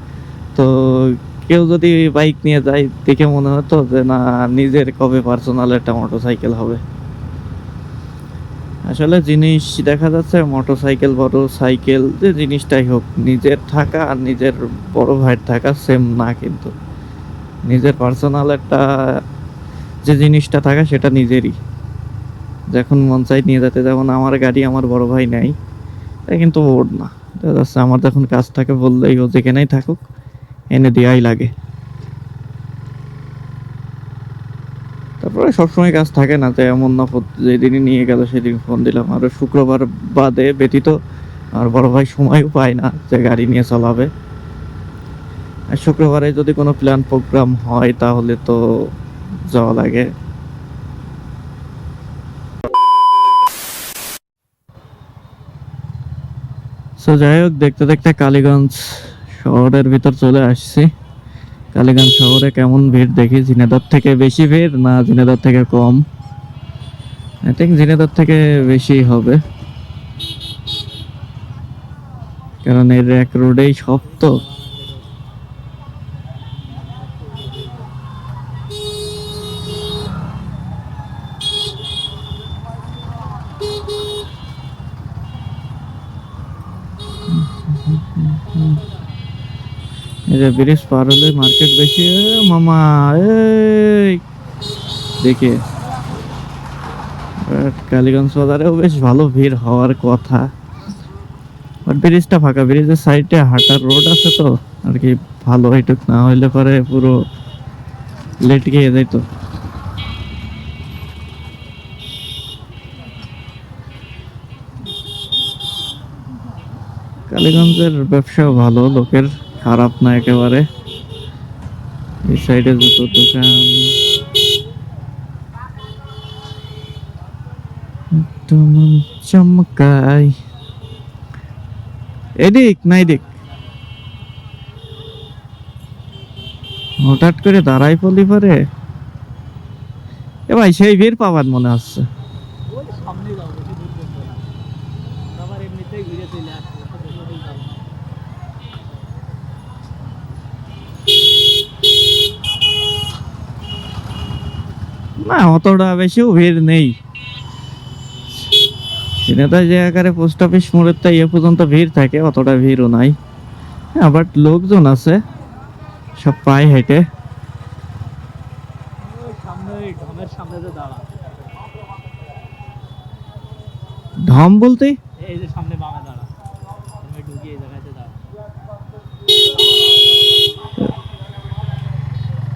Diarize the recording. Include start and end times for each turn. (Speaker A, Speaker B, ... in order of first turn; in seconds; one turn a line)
Speaker A: 0.5-6.8
Speaker A: 8.9-16.7
Speaker A: 17.6-18.8
Speaker A: 20.0-21.6
Speaker A: 22.7-25.5
Speaker A: 26.3-30.0
Speaker A: 30.7-31.5
Speaker A: 35.2-41.0
Speaker A: 41.5-44.1
Speaker A: 45.7-48.9
Speaker A: 49.5-50.1
Speaker A: 57.0-60.9
Speaker A: 61.7-66.0
Speaker A: 67.5-69.4
Speaker A: 72.6-74.4
Speaker B: 74.0-75.1
Speaker B: 76.7-77.9
Speaker A: 87.3-88.8
Speaker A: 90.3-94.2
Speaker A: 95.2-95.6
Speaker A: 97.4-100.5
Speaker A: 101.8-107.2
Speaker A: 108.4-109.2
Speaker A: 117.3-120.7
Speaker A: 122.3-123.9
Speaker A: 128.1-130.3
Speaker A: 132.4-133.2
Speaker A: 137.0-138.6
Speaker A: 140.5-142.0
Speaker B: 142.7-144.5
Speaker B: 145.3-147.9
Speaker A: 155.2-156.9
Speaker A: 159.2-163.2
Speaker A: 163.9-165.2
Speaker A: 166.2-167.0
Speaker B: 169.0-171.2
Speaker A: 174.2-175.0
Speaker B: 175.2-176.3
Speaker B: 177.0-178.2